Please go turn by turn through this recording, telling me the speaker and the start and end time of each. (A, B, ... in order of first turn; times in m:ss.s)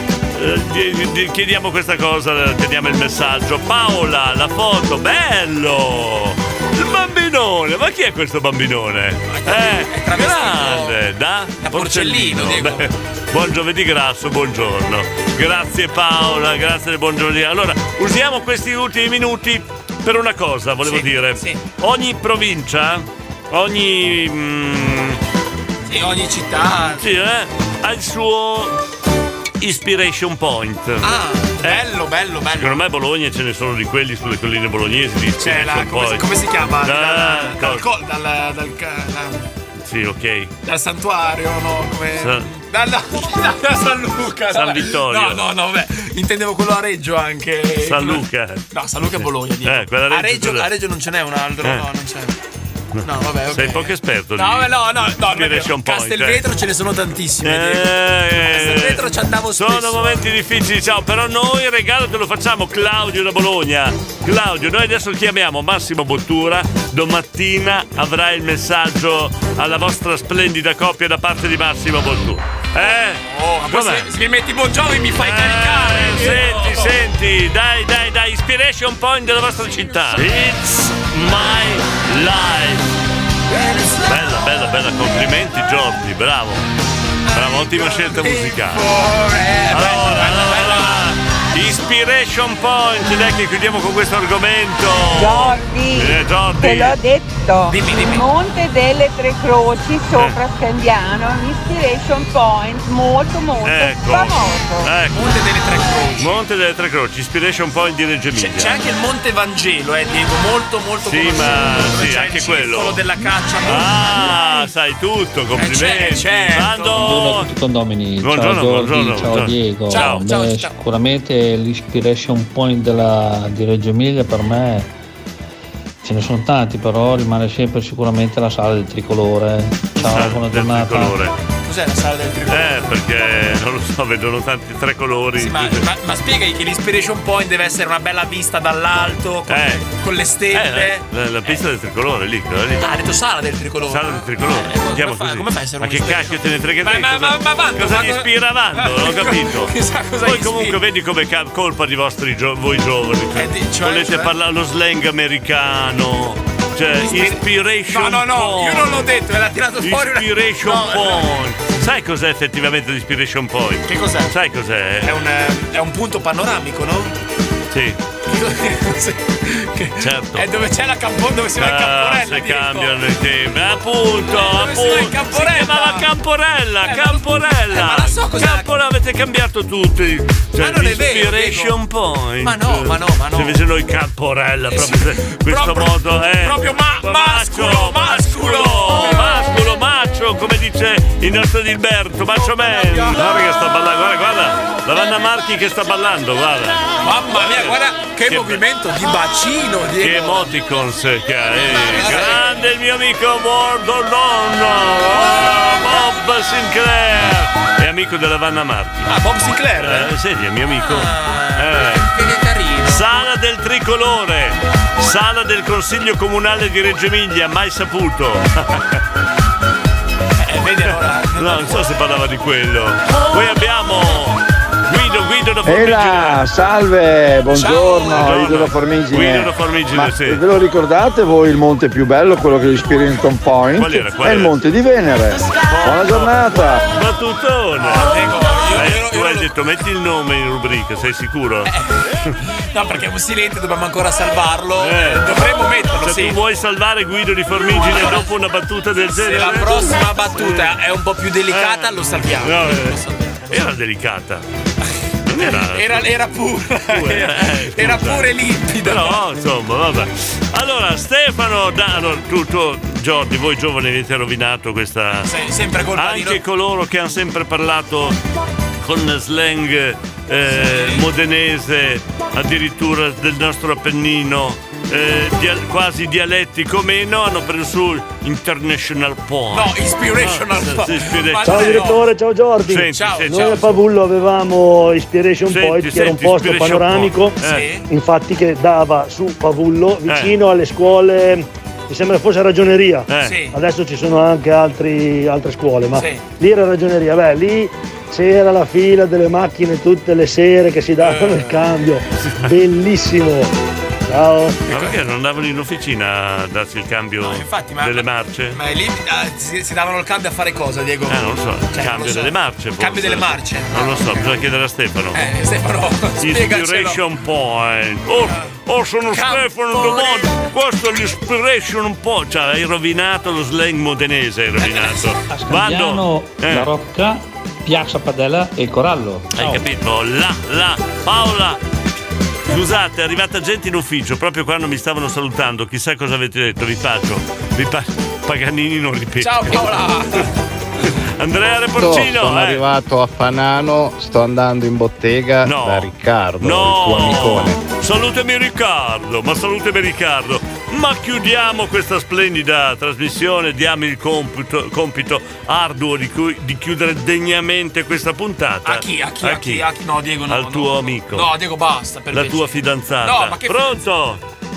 0:00.3-0:25.2 A
0:09.3-0:11.0 B
0:11.6-0:12.8 B
0:20.8-0:21.6 B
0:25.8-0:27.1 B
0:27.0-0:28.8 A
0:29.6-0:31.8 A
0:31.0-0:32.8 B
0:32.5-0:36.2 A
0:35.4-0:39.5 B
0:36.8-0:37.8 A
0:39.8-0:40.5 A
0:40.6-0:52.4 B
0:42.1-0:42.5 A
0:44.5-0:45.4 A
0:47.8-0:48.6 A
0:49.6-0:50.6 A
0:52.9-0:54.7 A
0:53.0-1:00.2 B
0:55.3-0:56.4 A
0:57.4-0:59.0 A
0:59.6-1:14.1 A
1:13.2-1:17.0 B
1:15.2-1:22.9 A
1:19.6-1:20.4 B
1:23.5-1:24.3 B
1:24.0-1:26.6 A
1:27.3-1:31.1 B
1:27.3-1:28.8 A
1:29.7-1:37.0 A
1:35.1-1:44.9 C
1:37.7-1:38.3 B
1:43.6-1:45.2 A
1:45.1-1:46.4 B
1:46.2-1:48.8 A
1:48.3-1:54.7 B
1:51.0-1:53.0 A
1:53.6-1:57.5 A
1:55.5-1:57.1 B
1:57.0-2:04.9 D
1:58.2-2:00.3 A
1:59.9-2:00.8 B
2:06.0-2:11.1 D
2:10.0-2:11.3 A
2:11.6-2:12.9 B
2:12.5-2:15.8 A
2:15.4-2:21.6 B
2:19.5-2:19.8 A
2:20.5-2:22.9 A
2:22.8-2:30.8 B
2:23.9-2:29.7 A
2:30.2-2:39.0 A
2:33.3-2:34.3 B
2:37.0-2:41.3 B
2:39.8-2:45.1 A
2:43.8-2:44.3 B
2:45.0-2:47.1 B
2:47.7-2:48.0 A
2:48.3-2:53.0 B
2:50.0-2:50.5 A
2:51.6-3:18.6 A
2:54.3-2:56.1 B
2:56.8-2:58.7 B
3:00.6-3:01.8 B
3:02.4-3:03.6 B
3:04.6-3:09.4 B
3:12.4-3:13.2 B
3:17.0-3:20.5 B
3:20.0-3:29.1 A
3:21.6-3:22.5 B
3:29.1-3:30.1 B
3:29.8-3:32.0 A
3:30.8-3:33.0 B
3:32.9-3:39.0 A
3:40.4-3:41.9 B
3:41.4-3:46.4 A
3:45.6-3:56.8 E
3:47.5-3:48.7 B
3:48.1-3:50.4 A
3:53.8-3:54.6 A
3:55.6-4:01.7 A
3:57.8-3:59.5 B
4:01.6-4:06.4 B
4:04.8-4:05.4 A
4:06.0-4:10.8 A
4:07.6-4:08.3 B
4:09.1-4:13.7 B
4:11.5-4:13.0 A
4:13.5-4:14.4 A
4:15.3-4:16.1 A
4:15.3-4:19.2 B
4:16.9-4:18.3 A
4:18.8-4:25.3 A
4:25.2-4:26.4 B
4:25.9-4:28.2 A
4:28.8-4:42.0 A
4:30.5-4:31.1 B
4:39.5-4:42.1 B
4:41.4-5:03.5 F
4:42.6-4:43.8 A
4:42.9-4:43.8 B
4:45.5-4:47.8 A
4:47.4-4:47.8 B
4:50.1-4:50.4 A
4:53.1-4:53.4 A
4:53.2-4:53.6 B
4:55.9-4:56.2 B
5:01.0-5:01.6 B
5:04.1-5:04.6 F
5:04.7-5:05.0 B
5:04.7-5:08.6 A
5:07.2-5:14.4 B
5:11.1-5:15.2 A
5:15.1-5:17.0 B
5:16.2-5:26.7 A
5:18.2-5:18.5 B
5:19.1-5:20.3 B
5:24.6-5:25.1 B
5:25.3-5:29.6 D
5:29.3-5:31.6 A
5:32.4-5:39.8 A
5:39.2-5:40.3 B
5:41.2-5:42.6 A
5:41.8-5:47.6 G
5:45.4-5:59.6 A
5:58.6-6:03.8 B
6:00.3-6:01.3 A
6:02.1-6:04.2 A